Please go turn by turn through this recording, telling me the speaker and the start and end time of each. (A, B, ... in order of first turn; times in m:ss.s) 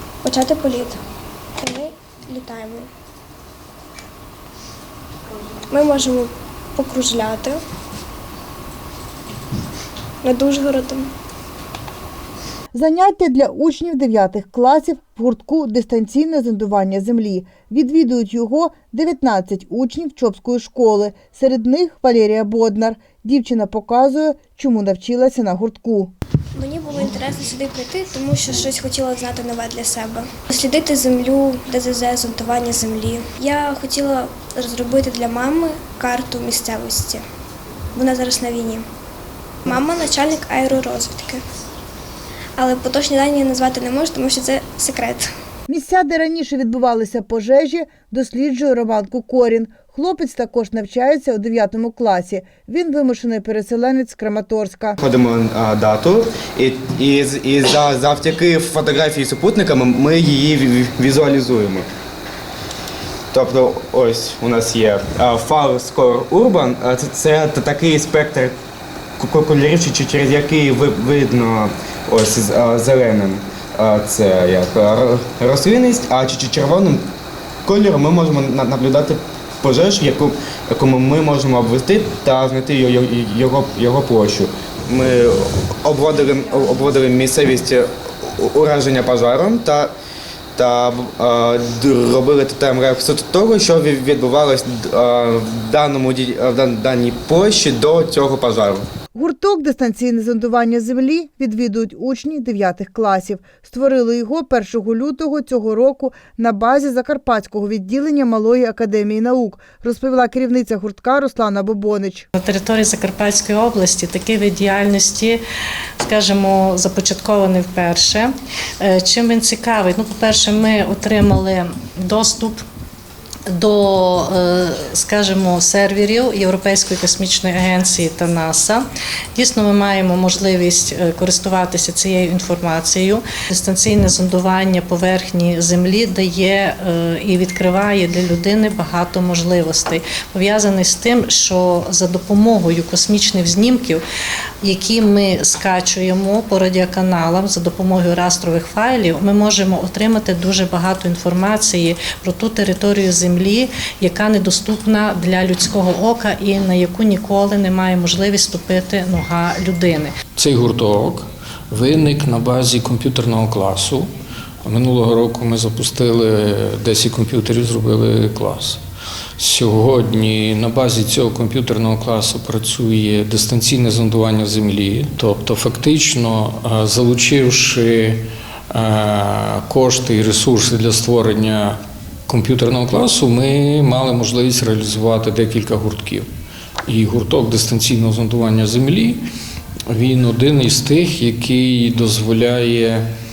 0:00.2-0:01.0 A
0:01.6-0:02.9 A
0:05.7-0:07.6 A
0:10.2-0:11.1 A
0:12.7-0:26.1 B
0:26.5-0:37.2 A
0:37.9-0:38.9 A
0:39.6-0:41.4 A
0:42.6-0:45.3 A
0:45.7-0:55.0 B
0:55.0-1:01.9 C
1:03.3-1:08.6 C
1:09.2-1:17.1 C
1:17.6-1:29.9 C
1:30.5-1:38.8 C
1:39.1-1:52.2 B
1:52.4-1:55.4 D
1:56.0-2:02.6 D
2:03.5-2:24.0 D
2:24.6-2:40.1 D
2:40.4-2:44.1 E
2:44.6-2:48.8 E
2:49.4-3:06.2 E
3:06.8-3:09.2 E
3:09.9-3:13.0 E